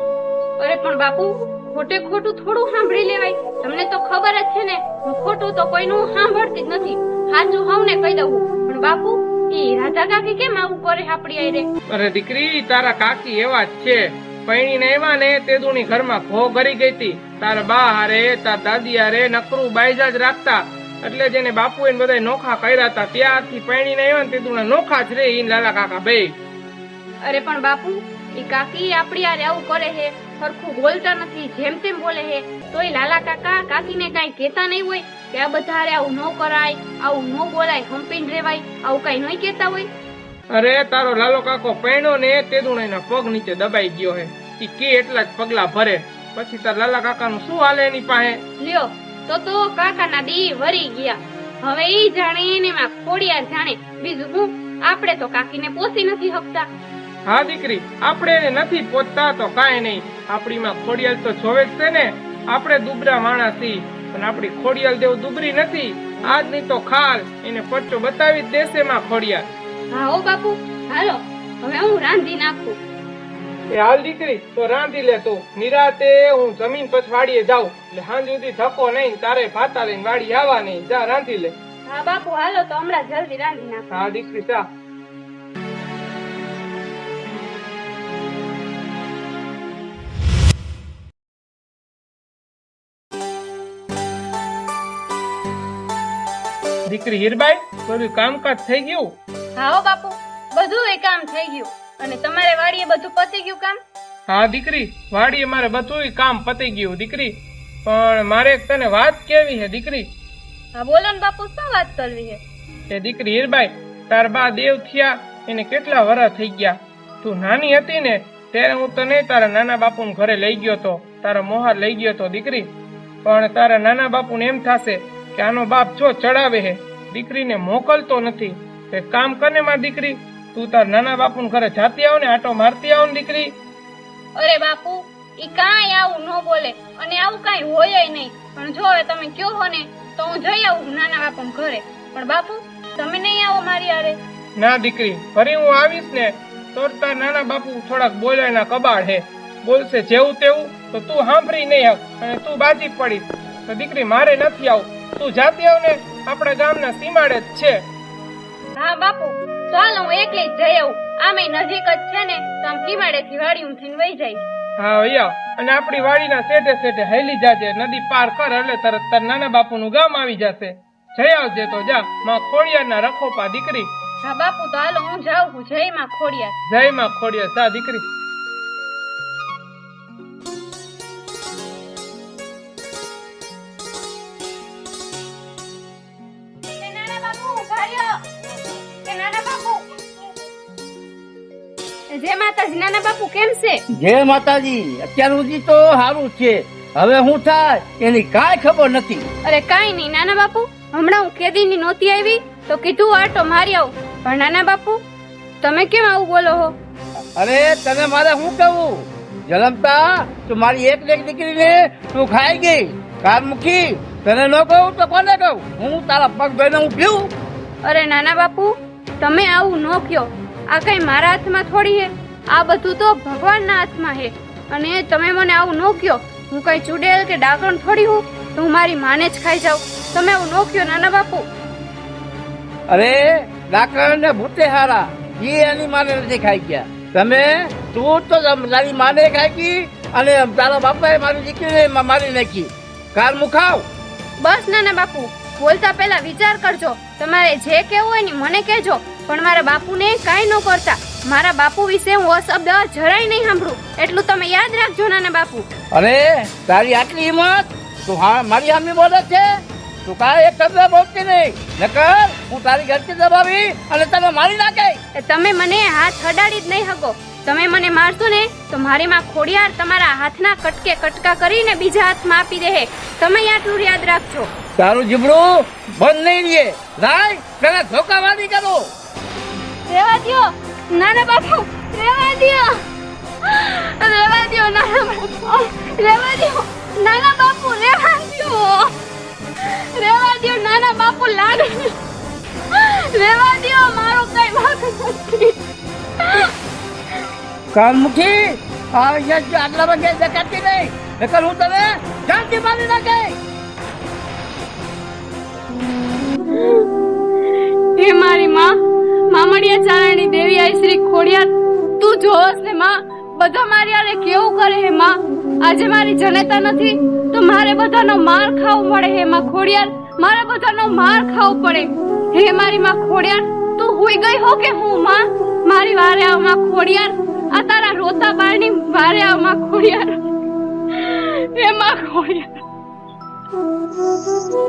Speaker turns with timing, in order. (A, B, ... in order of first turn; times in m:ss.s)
0:00.6-0:11.7 A
0:11.9-0:26.4 B
0:27.2-0:39.9 A
0:40.5-0:48.4 B
0:48.6-0:56.7 A
0:57.3-1:09.5 B
1:09.9-1:12.8 A
1:13.7-1:21.6 B
1:21.9-1:23.9 A
1:23.9-1:24.6 B
1:36.9-1:39.2 B
1:39.6-1:43.8 A
1:44.3-1:50.1 B
1:50.8-1:52.4 A
1:52.9-2:02.7 B
2:03.2-2:13.6 B
2:14.4-2:24.2 A
2:24.6-2:37.8 B
2:38.8-2:44.4 A
2:44.8-2:53.9 B
2:54.2-2:56.6 A
2:56.7-2:58.0 B
3:06.8-3:08.2 A
3:09.0-3:09.9 A
3:12.1-3:13.8 A
3:13.9-3:19.3 C
3:19.4-3:25.0 A
3:25.6-3:26.8 A
3:27.4-3:37.3 C
3:37.8-3:51.5 A
3:52.9-4:03.9 C
4:04.4-4:15.7 A
4:15.9-4:25.0 C
4:25.2-4:34.5 A
4:34.8-4:38.9 C
4:39.9-4:42.8 A
4:43.4-4:48.9 A
4:49.6-4:51.9 A
4:52.7-4:55.6 A
4:56.2-4:56.5 A
4:57.7-5:03.4 C
5:06.5-5:06.9 A
5:08.0-5:30.2 A
5:30.9-5:32.6 A